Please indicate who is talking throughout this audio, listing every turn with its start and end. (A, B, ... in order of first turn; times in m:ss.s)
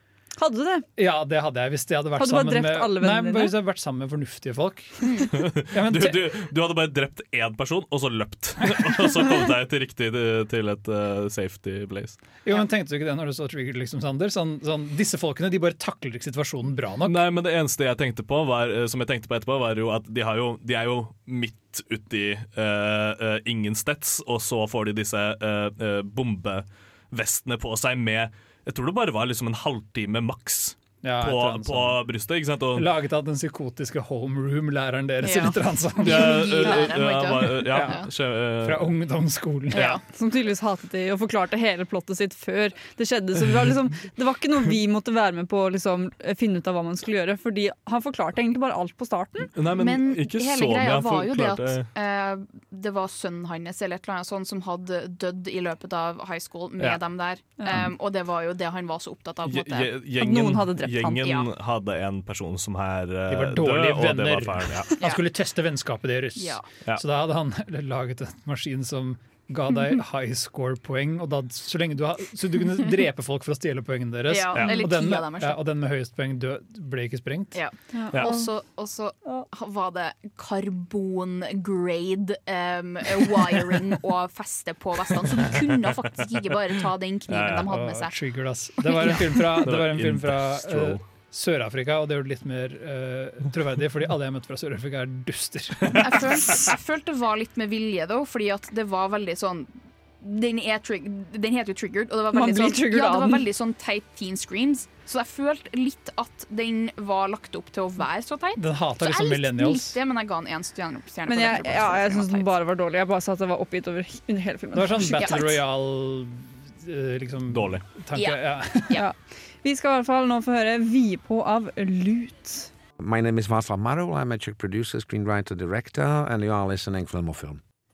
0:00.4-0:00.9 A
0:01.0-0:06.3 B
0:02.2-0:03.6 A
0:05.4-0:12.2 C
0:12.4-0:17.2 B
0:17.0-0:32.9 C
0:31.0-0:32.0 B
0:32.7-0:36.8 B
0:35.2-0:38.1 D
0:36.0-0:38.9 C
0:37.6-0:40.0 B
0:39.7-0:40.0 D
0:40.0-0:49.5 A
0:49.5-0:51.9 C
0:49.7-0:59.9 D
0:59.4-1:05.0 C
1:00.2-1:01.3 A
1:01.2-1:01.5 D
1:03.3-1:17.6 B
1:06.4-1:06.6 D
1:14.3-1:15.6 D
1:14.5-1:14.8 C
1:17.5-1:28.1 D
1:17.9-1:18.5 A
1:27.3-1:27.7 C
1:27.7-1:36.2 B
1:28.8-1:29.5 D
1:29.6-1:31.0 C
1:35.9-1:52.5 D
1:42.3-1:43.4 A
1:48.6-1:50.0 B
1:51.3-1:55.5 A
1:54.7-1:59.0 B
1:55.2-1:55.6 D
1:57.5-1:57.8 C
1:58.1-1:59.1 D
1:58.9-2:02.7 A
2:03.0-2:07.6 E